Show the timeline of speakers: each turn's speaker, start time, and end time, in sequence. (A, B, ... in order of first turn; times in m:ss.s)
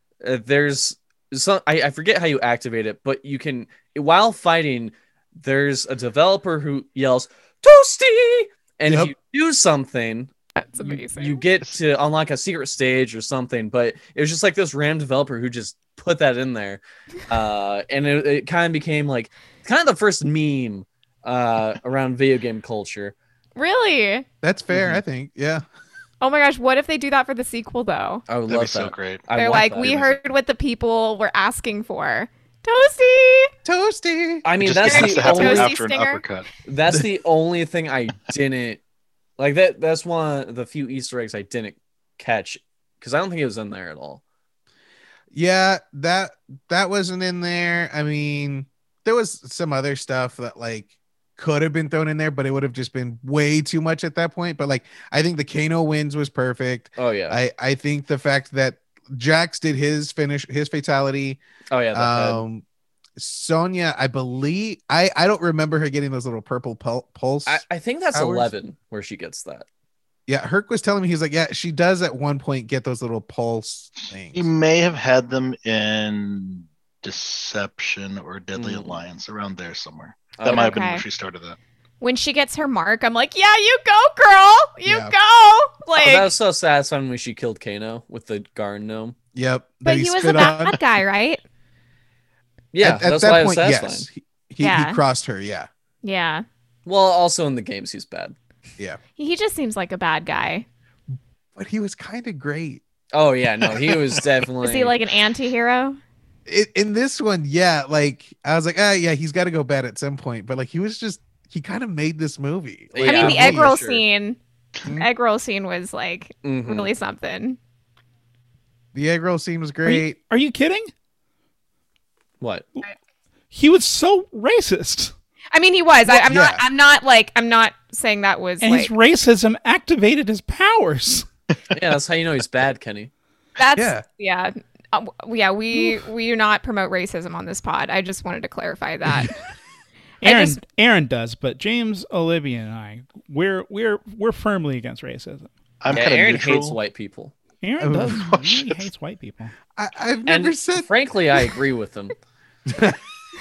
0:00.2-0:23.1 A
0:08.9-0:09.1 B
0:10.6-0:11.4 C
0:23.6-0:24.2 C
0:24.4-0:25.6 B
0:24.7-0:25.0 A
0:26.2-0:28.2 C
0:28.3-0:30.1 A
0:28.5-0:30.1 D
0:29.3-0:33.5 C
0:33.6-0:34.4 B
0:34.4-0:35.7 A
0:34.6-0:36.5 D
0:34.9-0:36.2 C
0:36.6-0:38.8 A
0:39.4-0:44.2 A
0:45.3-1:01.4 B
0:57.0-0:57.4 A
1:01.7-1:02.4 A
1:01.9-1:02.6 B
1:03.2-1:08.5 B
1:07.4-1:09.6 A
1:10.3-1:14.5 B
1:14.0-1:21.6 D
1:18.5-1:19.0 A
1:20.4-1:20.7 A
1:20.4-1:21.0 C
1:22.0-1:26.3 C
1:24.8-1:25.1 B
1:26.0-1:29.1 A
1:29.3-1:30.8 B
1:29.8-1:31.4 C
1:32.7-1:34.1 A
1:32.8-1:35.7 B
1:34.6-1:35.0 C
1:36.0-1:36.4 C
1:36.8-1:38.3 A
1:39.2-1:40.6 C
1:41.6-1:42.8 B
1:43.1-1:44.9 A
1:44.6-1:46.0 C
1:46.5-1:53.7 B
1:52.9-1:54.0 A
1:53.0-1:57.6 C
1:56.4-1:56.9 A
1:58.9-2:00.2 B
1:59.8-2:00.9 E
2:02.4-2:02.7 A
2:03.5-2:05.1 E
2:05.5-2:08.9 C
2:06.1-2:06.6 B
2:08.6-2:11.3 E
2:11.7-2:13.1 A
2:13.6-2:19.4 C
2:13.8-2:14.0 B
2:20.2-2:20.6 C
2:20.2-2:25.5 E
2:25.8-2:26.8 D
2:25.9-2:27.3 A
2:27.6-2:29.5 E
2:27.8-2:28.2 B
2:28.1-2:28.8 D
2:29.8-2:30.9 B
2:30.2-2:32.1 A
2:32.7-2:33.0 B